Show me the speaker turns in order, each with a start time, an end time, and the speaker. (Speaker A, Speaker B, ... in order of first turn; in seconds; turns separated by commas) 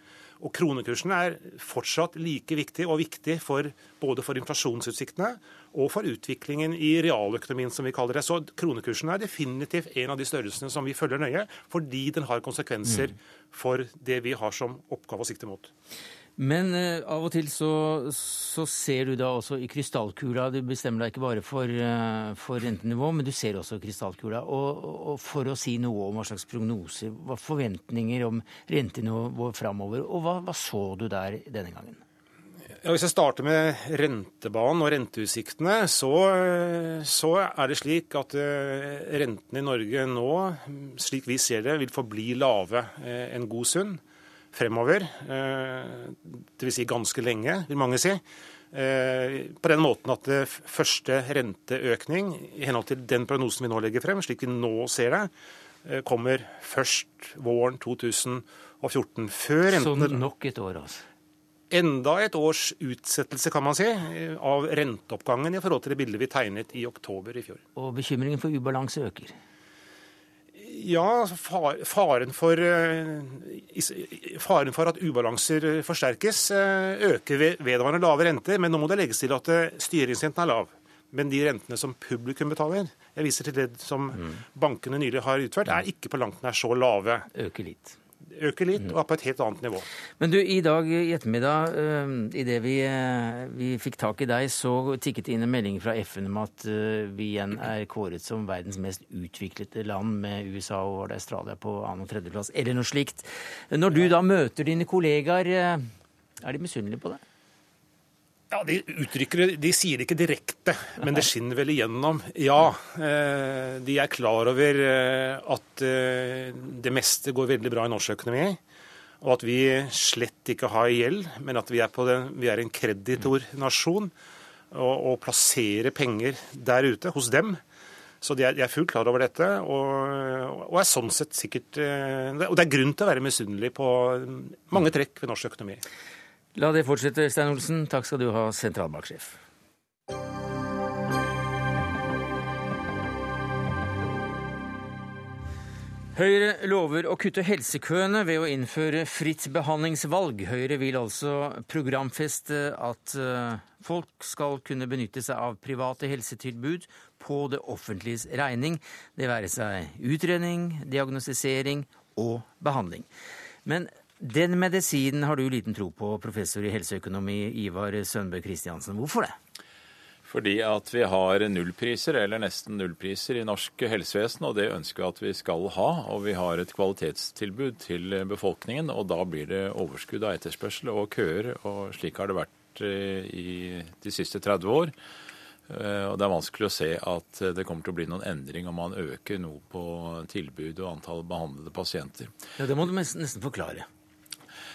Speaker A: 0.4-15.7, Speaker B: 16.4-32.0, Speaker A: 32.8-44.0, Speaker A: 44.5-55.3, Speaker A: 55.8-60.2, Speaker B: 59.7-61.0, Speaker A: 61.7-67.6, Speaker B: 67.8-69.4, Speaker A: 70.5-87.3, Speaker B: 84.1-84.4, Speaker B: 87.3-88.0, Speaker A: 88.3-89.8, Speaker B: 90.2-105.9, Speaker B: 106.4-107.2, Speaker A: 108.5-118.6, Speaker A: 119.2-124.1, Speaker A: 124.7-127.6, Speaker A: 128.2-135.8, Speaker B: 136.5-139.4, Speaker B: 146.1-163.1, Speaker B: 163.6-169.4, Speaker C: 170.2-184.9, Speaker C: 185.7-192.3, Speaker B: 192.6-193.9